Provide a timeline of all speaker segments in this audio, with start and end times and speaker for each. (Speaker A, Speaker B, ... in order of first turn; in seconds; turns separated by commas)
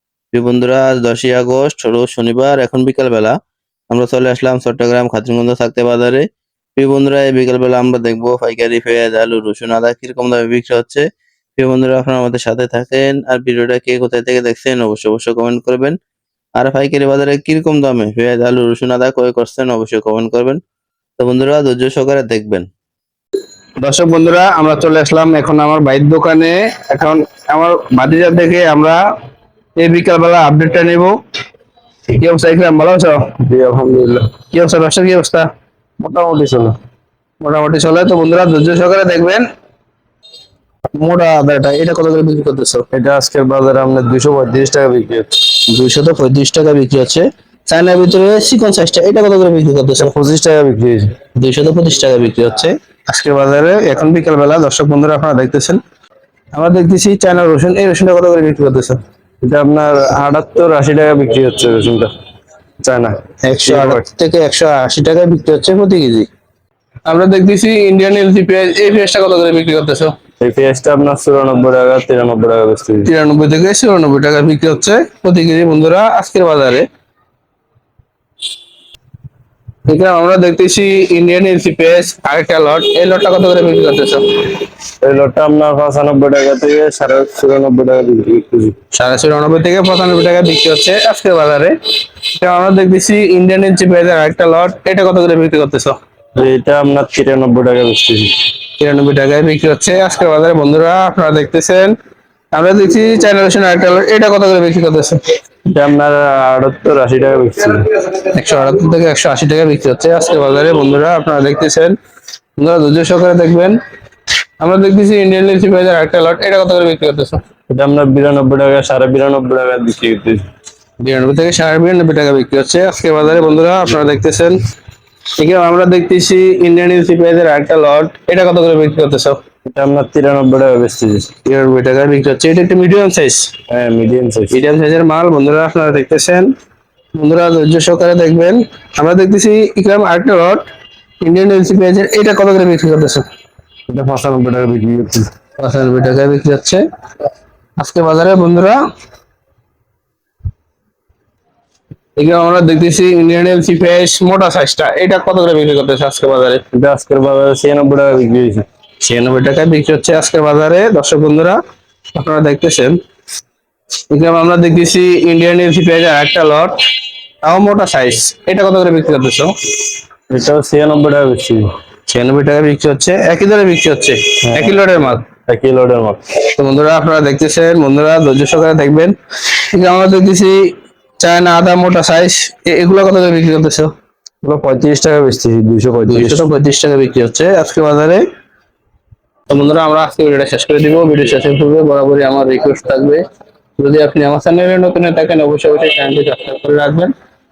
Speaker A: 0.3-3.3, Speaker A: 3.9-6.2, Speaker A: 6.8-11.0, Speaker A: 11.6-15.9, Speaker A: 16.6-20.6, Speaker A: 21.2-22.7, Speaker B: 23.8-29.0, Speaker B: 29.8-31.2, Speaker B: 32.2-33.3, Speaker C: 33.4-34.2, Speaker B: 34.5-35.5, Speaker C: 36.0-36.8, Speaker B: 37.4-39.5, Speaker B: 41.0-42.9, Speaker C: 42.9-45.3, Speaker B: 45.7-50.1, Speaker C: 50.0-51.1, Speaker B: 51.4-55.8, Speaker B: 56.5-59.0, Speaker C: 59.4-62.1, Speaker C: 62.8-64.0, Speaker B: 63.5-66.3, Speaker B: 67.1-70.2, Speaker C: 70.4-73.1, Speaker B: 73.0-76.9, Speaker B: 79.9-84.6, Speaker C: 85.0-88.8, Speaker B: 88.9-91.8, Speaker B: 92.3-96.0, Speaker C: 96.4-98.3, Speaker B: 98.8-102.0, Speaker B: 102.5-105.2, Speaker C: 105.7-107.8, Speaker B: 108.2-112.0, Speaker B: 112.6-113.8, Speaker B: 114.6-117.4, Speaker C: 117.7-120.4, Speaker B: 121.0-124.6, Speaker B: 125.4-129.4, Speaker C: 129.7-131.3, Speaker B: 131.4-133.5, Speaker C: 133.7-134.6, Speaker B: 134.5-136.5, Speaker B: 137.2-140.7, Speaker B: 141.2-143.3, Speaker C: 143.9-145.3, Speaker B: 145.6-146.8, Speaker B: 147.8-148.8, Speaker B: 152.2-156.6, Speaker C: 156.7-158.7, Speaker B: 159.0-161.6, Speaker B: 162.2-163.0, Speaker B: 164.1-166.8, Speaker B: 167.4-169.5, Speaker C: 170.3-171.7, Speaker B: 172.1-175.3, Speaker C: 174.4-174.8, Speaker C: 175.5-176.2, Speaker B: 176.6-179.2, Speaker B: 179.7-180.6, Speaker B: 181.2-183.9, Speaker C: 184.4-186.4, Speaker B: 186.1-188.2, Speaker B: 189.5-193.2, Speaker B: 193.8-197.1